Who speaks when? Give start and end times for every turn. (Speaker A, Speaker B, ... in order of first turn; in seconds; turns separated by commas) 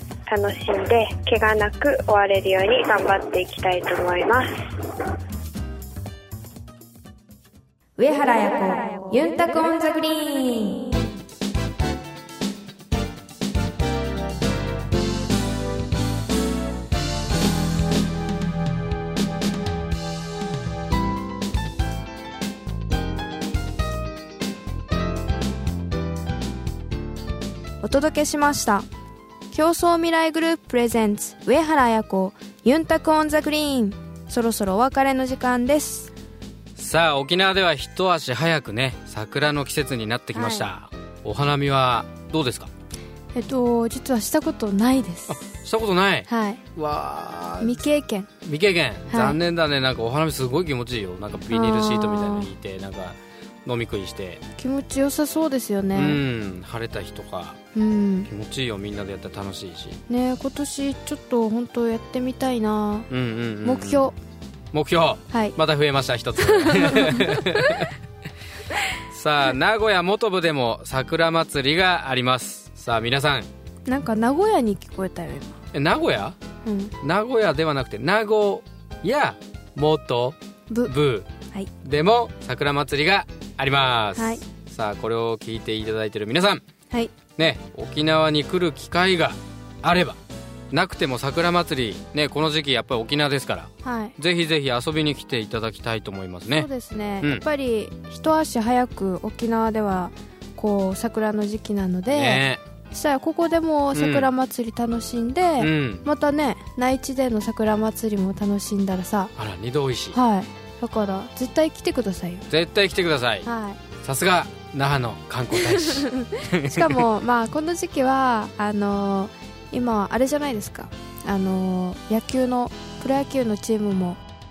Speaker A: 0.3-4.5, Speaker B: 8.0-10.9, Speaker B: 27.8-28.9, Speaker B: 29.5-36.1, Speaker C: 36.8-42.7, Speaker B: 40.3-40.7, Speaker B: 43.3-45.4, Speaker C: 45.3-47.8, Speaker B: 46.3-46.6, Speaker B: 47.6-48.3, Speaker C: 48.5-54.4, Speaker B: 49.1-49.4, Speaker B: 51.5-52.5, Speaker B: 54.6-56.2, Speaker C: 55.9-57.6, Speaker B: 57.7-58.3, Speaker C: 58.3-60.0, Speaker B: 60.1-63.1, Speaker C: 63.1-64.1, Speaker B: 63.6-64.2, Speaker C: 64.7-67.9, Speaker B: 65.3-65.6, Speaker B: 66.4-67.6, Speaker C: 69.1-73.5, Speaker B: 73.9-75.6, Speaker C: 75.7-76.4, Speaker B: 76.7-76.9, Speaker C: 77.0-80.4, Speaker C: 80.9-81.3, Speaker C: 81.8-86.6, Speaker B: 84.2-84.4, Speaker C: 87.4-90.2, Speaker C: 90.7-96.7, Speaker B: 93.8-94.2, Speaker B: 96.5-109.3, Speaker C: 102.1-102.6, Speaker C: 104.0-104.3, Speaker C: 105.6-106.0, Speaker C: 109.4-110.2, Speaker B: 110.1-112.5, Speaker C: 112.5-113.5, Speaker B: 113.4-113.8, Speaker C: 114.0-116.9, Speaker B: 116.7-124.2